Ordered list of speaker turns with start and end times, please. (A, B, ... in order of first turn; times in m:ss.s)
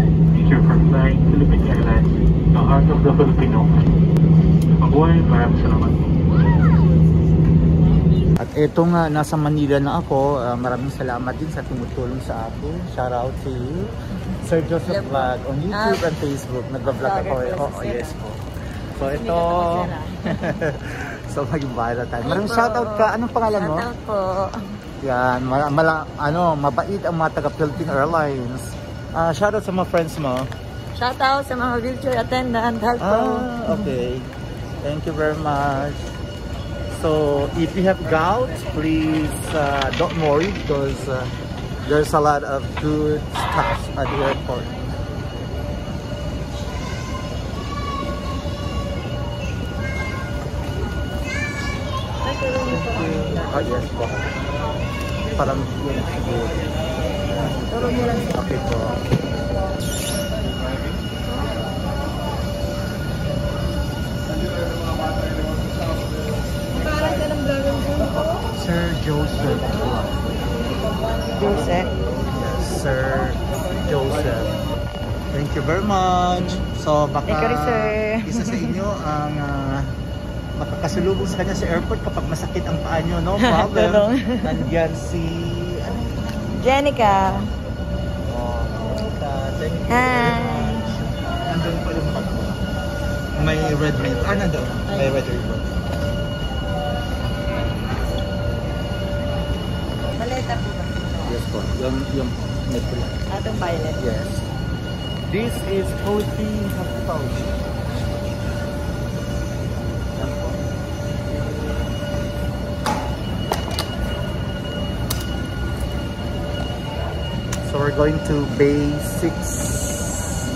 0:00.4-0:03.8 A
0:04.7-0:06.1 A
0:08.4-0:13.9 B
0:14.4-0:18.4 B
0:14.9-0:16.1 C
0:17.0-0:18.2 C
0:19.0-0:23.9 B
0:19.0-0:20.6 C
0:22.2-0:24.5 C
0:25.0-0:30.5 B
0:27.8-0:28.1 C
0:31.0-0:33.9 C
0:33.0-0:34.3 B
0:34.8-0:36.0 B
0:36.9-0:41.3 B
0:41.8-0:44.8 B
0:52.6-0:54.3 B
0:55.4-0:56.6 B
0:57.2-0:59.0 B
0:57.7-0:58.3 C
1:08.6-1:10.4 B
1:11.4-1:11.9 C
1:12.3-1:14.5 B
1:15.3-1:19.9 B
1:17.3-1:18.7 C
1:20.6-1:27.4 B
1:23.4-1:24.5 C
1:26.6-1:27.4 C
1:28.2-1:32.6 B
1:29.9-1:30.9 C
1:33.3-1:35.8 B
1:34.9-1:35.2 C
1:40.2-1:41.4 C
1:41.3-1:43.2 B
1:43.3-1:44.0 C
1:44.0-1:44.5 B
1:45.3-1:47.6 B
1:50.1-1:50.6 B
1:57.6-2:00.3 B